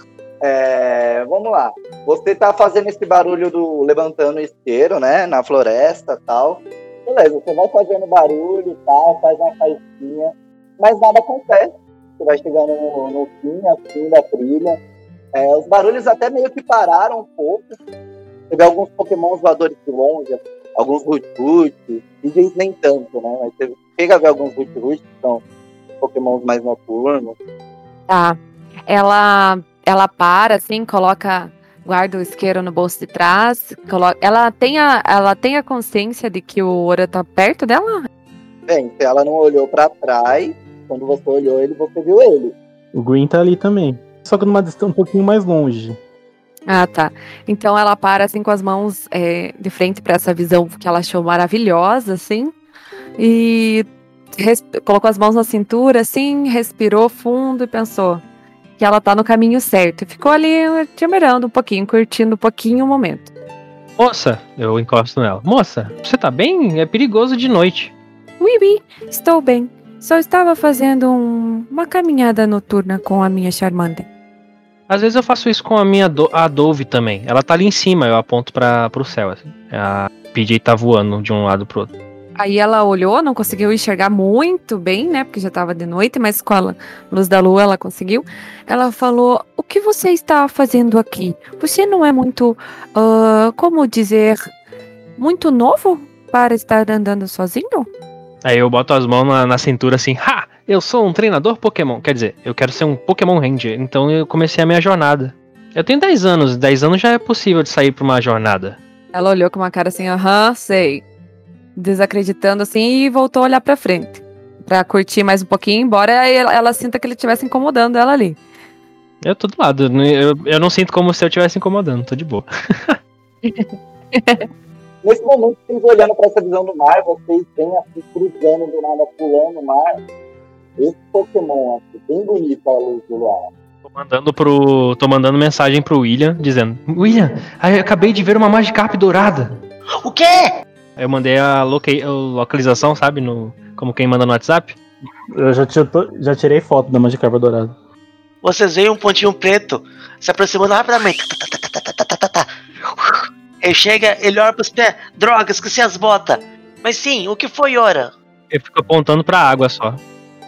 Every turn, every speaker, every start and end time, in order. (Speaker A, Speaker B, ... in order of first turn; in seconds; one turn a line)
Speaker A: 0.4-14.8
Speaker A: 15.3-17.8
Speaker A: 18.5-25.4
Speaker A: 26.0-27.4
Speaker B: 28.1-28.4
Speaker B: 28.9-38.1
Speaker A: 38.7-42.5
Speaker C: 42.9-46.0
Speaker B: 46.7-52.5
Speaker B: 53.2-58.2
Speaker B: 58.8-63.3
Speaker D: 64.0-67.9
Speaker B: 68.4-74.1
Speaker D: 74.9-81.9
Speaker B: 82.4-94.4
Speaker B: 95.2-97.9
Speaker D: 98.5-108.8
Speaker B: 109.1-111.0
Speaker B: 111.8-118.4
Speaker D: 119.2-123.0
Speaker B: 123.5-124.5
Speaker A: 125.0-130.0
Speaker A: 130.8-133.5
Speaker D: 133.8-139.5
Speaker E: 140.1-140.5
Speaker D: 141.0-144.8
Speaker C: 145.3-147.8
Speaker E: 148.4-158.1
Speaker D: 158.5-160.0